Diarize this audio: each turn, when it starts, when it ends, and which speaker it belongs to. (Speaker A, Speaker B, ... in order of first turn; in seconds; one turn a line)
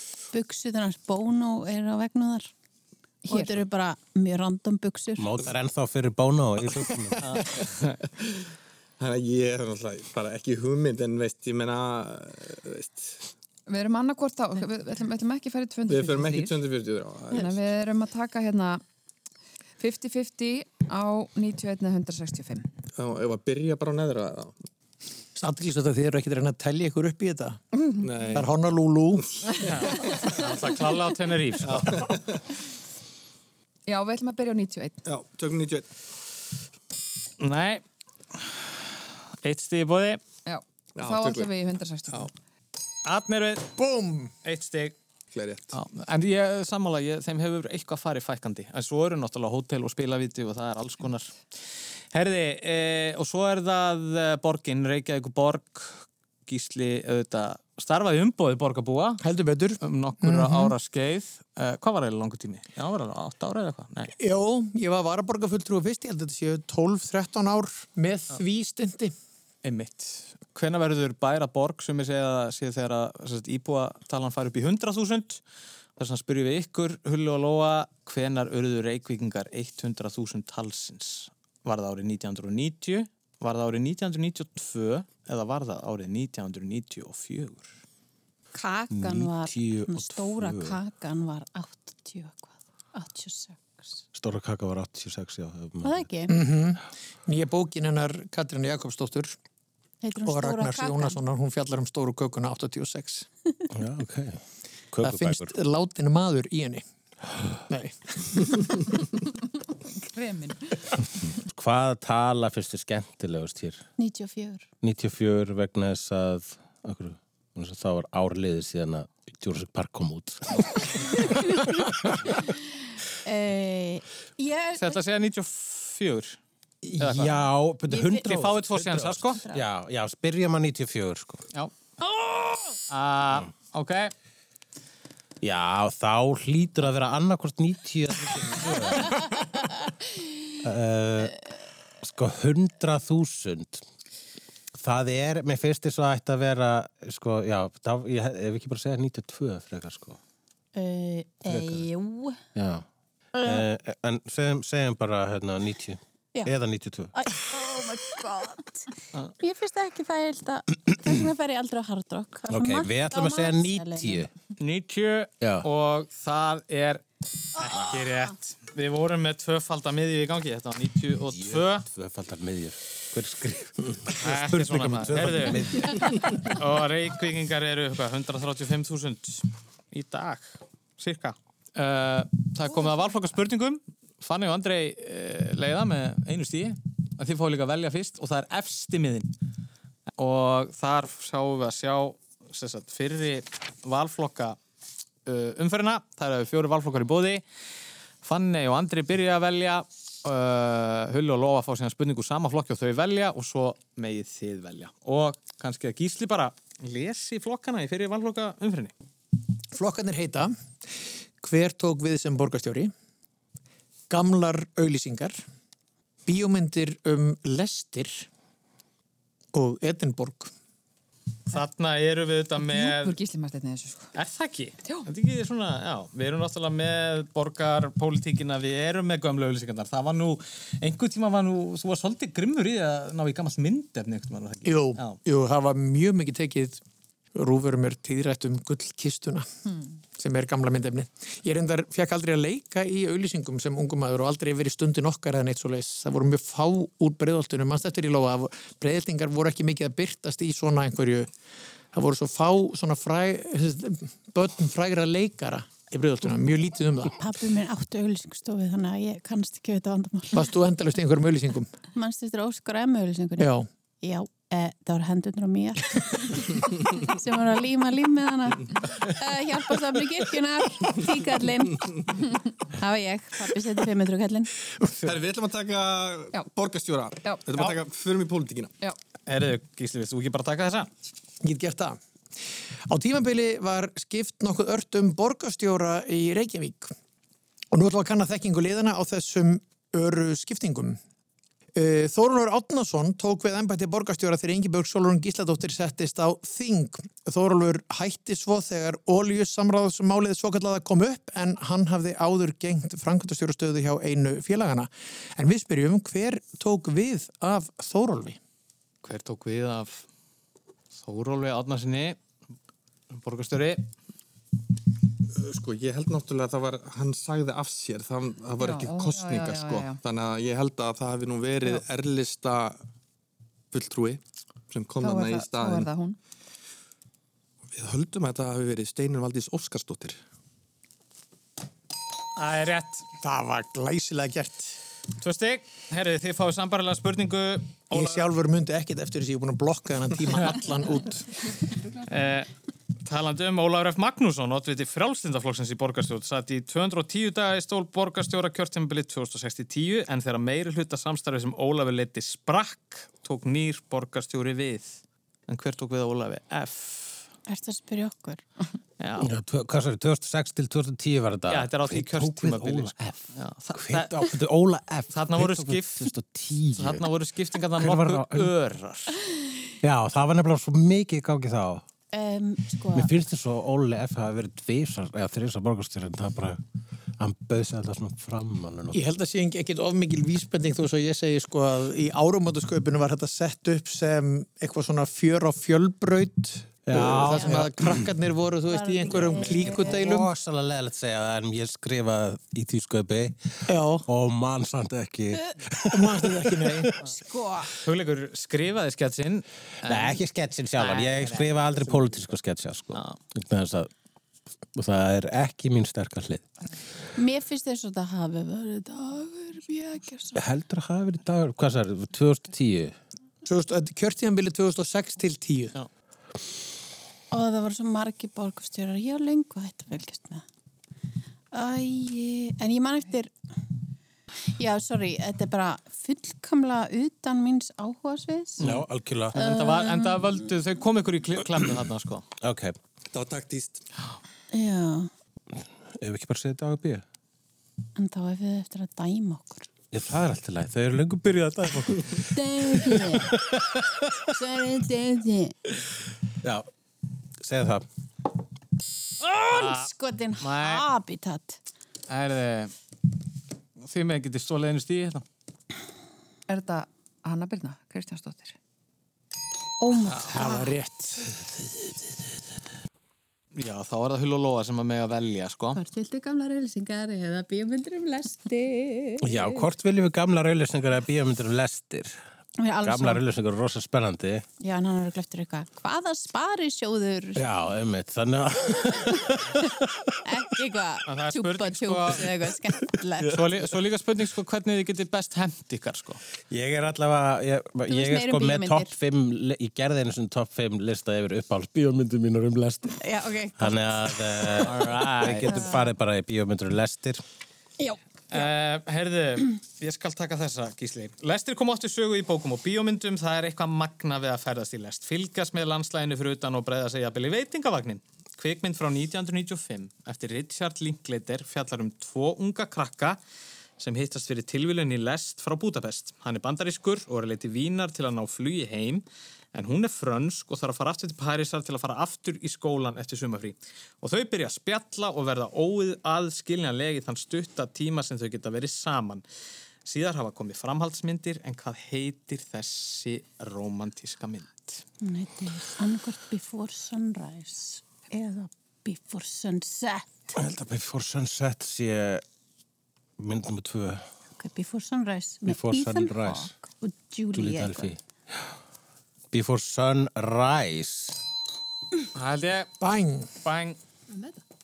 Speaker A: 0.3-2.5
Speaker B: 3.3-3.6
Speaker A: 3.3-5.5
Speaker C: 5.2-7.4
Speaker D: 7.2-8.0
Speaker E: 9.0-13.3
Speaker B: 13.7-16.6
Speaker E: 15.9-17.6
Speaker B: 17.3-18.8
Speaker B: 19.8-22.7
Speaker E: 23.0-24.5
Speaker F: 25.4-27.6
Speaker E: 28.0-28.5
Speaker F: 28.3-29.4
Speaker E: 29.2-30.4
Speaker D: 29.6-32.0
Speaker E: 31.6-32.4
Speaker B: 33.9-35.0
Speaker E: 35.0-35.9
Speaker D: 37.4-37.8
Speaker D: 39.4-40.2
Speaker B: 40.5-42.3
Speaker E: 41.0-41.5
Speaker D: 43.0-43.7
Speaker F: 43.8-44.3
Speaker D: 44.4-45.0
Speaker E: 45.3-45.8
Speaker D: 45.7-51.4
Speaker D: 52.1-59.2
Speaker F: 59.2-60.8
Speaker D: 59.8-64.1
Speaker F: 64.2-69.1
Speaker D: 69.6-75.4
Speaker D: 76.0-87.7
Speaker A: 88.5-94.0
Speaker C: 88.9-90.8
Speaker C: 94.1-96.1
Speaker A: 95.8-96.3
Speaker F: 96.3-99.4
Speaker A: 100.0-101.2
Speaker F: 100.2-103.3
Speaker C: 103.7-105.5
Speaker F: 105.0-106.8
Speaker F: 107.7-108.9
Speaker B: 110.0-110.9
Speaker C: 111.3-113.8
Speaker A: 114.0-114.7
Speaker C: 114.8-121.3
Speaker A: 121.2-121.7
Speaker A: 122.3-122.6
Speaker A: 123.1-125.0
Speaker D: 124.8-126.4
Speaker C: 126.9-131.4
Speaker D: 127.0-127.4
Speaker A: 127.9-128.5
Speaker D: 128.2-129.4
Speaker D: 132.9-134.1
Speaker C: 135.4-139.2
Speaker C: 140.6-141.4
Speaker C: 142.0-143.8
Speaker C: 144.8-150.2
Speaker A: 150.8-152.4
Speaker C: 151.5-151.9
Speaker C: 152.6-157.2
Speaker A: 153.3-153.7
Speaker A: 157.2-164.3
Speaker C: 162.5-164.3
Speaker D: 164.6-167.0
Speaker C: 165.4-165.7
Speaker D: 167.6-171.9
Speaker A: 167.6-167.9
Speaker C: 171.3-176.3
Speaker D: 174.2-189.3
Speaker D: 190.2-194.6
Speaker D: 195.3-197.4
Speaker D: 198.2-208.9
Speaker F: 209.7-210.5
Speaker F: 211.4-212.9
Speaker F: 214.1-215.4
Speaker F: 216.3-218.3
Speaker F: 219.5-220.5
Speaker D: 221.5-223.2
Speaker B: 222.6-224.1
Speaker D: 224.1-235.2
Speaker F: 234.7-236.8
Speaker F: 237.3-239.5
Speaker F: 240.2-251.3
Speaker F: 251.9-257.2
Speaker A: 257.2-260.5
Speaker F: 260.3-261.7
Speaker A: 261.9-263.5
Speaker F: 263.4-263.7
Speaker A: 264.0-274.5
Speaker F: 274.8-275.1
Speaker E: 275.0-278.7
Speaker B: 277.2-277.6
Speaker D: 279.3-280.9
Speaker F: 281.4-282.0
Speaker F: 282.9-286.9
Speaker F: 287.7-291.0
Speaker F: 291.8-308.4
Speaker D: 309.0-310.1
Speaker D: 311.0-312.2
Speaker D: 313.1-313.9
Speaker E: 315.3-322.8
Speaker B: 318.6-320.0
Speaker E: 323.7-325.9
Speaker B: 325.0-326.2
Speaker E: 327.7-330.2
Speaker D: 332.4-333.1
Speaker F: 333.2-334.8
Speaker D: 335.2-338.2
Speaker F: 337.9-341.3
Speaker D: 342.1-342.5
Speaker D: 343.0-357.3
Speaker A: 357.5-358.5
Speaker D: 359.0-359.3
Speaker C: 359.2-367.1
Speaker D: 361.5-364.1
Speaker D: 365.1-366.1
Speaker D: 366.8-369.2
Speaker C: 367.8-368.5
Speaker C: 369.8-371.8
Speaker A: 372.1-373.1
Speaker C: 372.9-376.6
Speaker C: 377.2-379.0
Speaker F: 378.9-390.3
Speaker C: 386.9-388.1
Speaker A: 387.0-387.6
Speaker A: 388.7-390.0
Speaker C: 389.1-396.9
Speaker F: 393.7-394.1
Speaker F: 395.9-396.9
Speaker A: 397.0-397.7
Speaker D: 397.8-400.2
Speaker C: 399.8-403.9
Speaker D: 400.8-401.6
Speaker C: 404.8-406.5
Speaker A: 407.1-410.4
Speaker C: 410.4-413.0
Speaker F: 413.4-415.7
Speaker A: 417.3-420.4
Speaker A: 421.5-423.3
Speaker A: 424.5-428.7
Speaker D: 428.6-432.3
Speaker C: 428.6-429.4
Speaker A: 429.3-430.5
Speaker C: 432.4-432.8
Speaker E: 433.1-433.8
Speaker A: 434.5-435.1
Speaker C: 435.9-437.0
Speaker A: 438.0-439.7
Speaker C: 439.9-444.2
Speaker A: 442.3-443.4
Speaker A: 444.3-445.6
Speaker C: 446.4-446.7
Speaker C: 447.4-447.9
Speaker A: 449.2-451.6
Speaker D: 449.4-450.9
Speaker D: 452.1-452.7
Speaker D: 453.8-455.2
Speaker B: 456.5-458.6
Speaker A: 459.8-460.8
Speaker D: 460.1-460.4
Speaker F: 460.3-461.2
Speaker D: 463.6-465.8
Speaker A: 465.7-469.6
Speaker C: 469.2-472.2
Speaker A: 472.6-473.2
Speaker C: 472.8-474.4
Speaker A: 474.6-477.4
Speaker C: 477.4-479.9
Speaker A: 480.2-483.4
Speaker D: 481.1-482.3
Speaker D: 483.3-486.2
Speaker C: 486.5-493.0
Speaker A: 487.9-488.9
Speaker A: 493.0-494.7
Speaker C: 493.6-497.2
Speaker D: 494.6-495.6
Speaker A: 495.4-495.9
Speaker D: 498.3-513.2
Speaker D: 513.8-529.2
Speaker D: 529.9-534.8
Speaker A: 535.0-540.4
Speaker C: 540.4-542.2
Speaker C: 543.2-544.1
Speaker A: 544.4-547.9
Speaker C: 545.5-546.5
Speaker C: 547.3-548.5
Speaker C: 549.3-551.2
Speaker D: 552.1-552.7
Speaker F: 552.8-553.3
Speaker D: 553.4-553.8